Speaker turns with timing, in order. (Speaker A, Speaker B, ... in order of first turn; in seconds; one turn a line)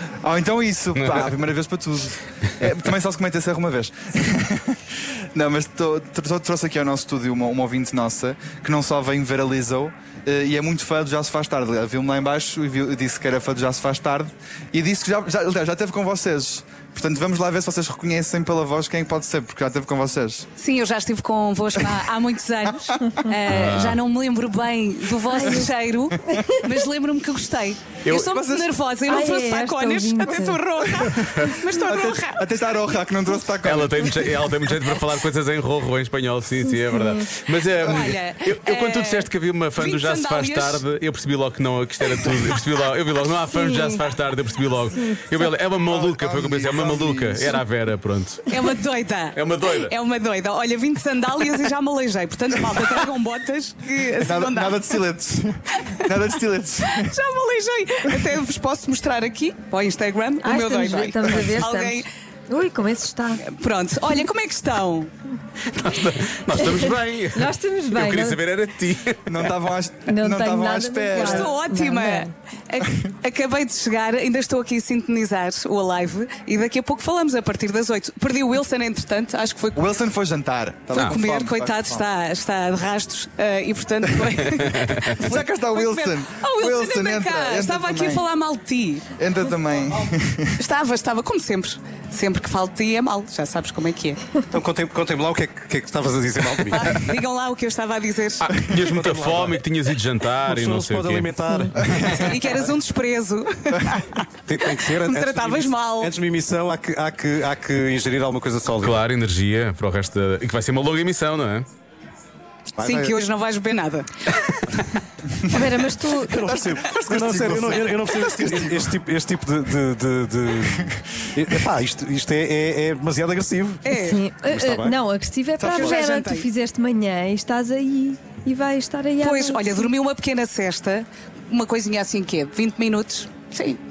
Speaker A: 0.2-20.5
Speaker B: 1.0-1.3
Speaker C: 20.6-33.1
Speaker B: 23.5-24.0
Speaker D: 25.3-25.7
Speaker D: 26.2-26.6
Speaker A: 28.1-28.7
Speaker D: 29.1-30.7
Speaker A: 31.0-34.3
Speaker B: 33.6-48.4
Speaker D: 36.7-37.3
Speaker C: 37.7-40.8
Speaker C: 42.1-42.5
Speaker D: 43.5-44.0
Speaker A: 45.9-47.6
Speaker C: 48.5-55.0
Speaker B: 49.3-49.9
Speaker A: 54.2-57.1
Speaker C: 56.9-62.0
Speaker D: 60.4-63.4
Speaker C: 63.4-65.1
Speaker B: 65.7-69.4
Speaker D: 66.6-68.4
Speaker A: 69.3-71.6
Speaker D: 70.1-72.3
Speaker C: 71.2-79.8
Speaker A: 79.7-82.0
Speaker C: 81.0-89.0
Speaker B: 84.6-85.1
Speaker A: 85.2-88.2
Speaker A: 89.2-90.6
Speaker C: 90.6-94.2
Speaker E: 94.5-97.0
Speaker C: 96.8-98.5
Speaker B: 98.4-101.3
Speaker E: 98.7-99.7
Speaker E: 100.4-102.3
Speaker D: 101.4-101.8
Speaker A: 102.0-102.3
Speaker C: 102.1-104.2
Speaker E: 104.5-109.0
Speaker C: 105.0-106.1
Speaker B: 108.8-111.7
Speaker E: 112.8-113.2
Speaker C: 112.8-114.1
Speaker D: 115.5-116.4
Speaker E: 116.2-125.0
Speaker A: 116.4-118.9
Speaker C: 123.8-124.2
Speaker D: 124.0-129.9
Speaker A: 125.6-126.0
Speaker C: 125.7-126.5
Speaker C: 129.2-133.8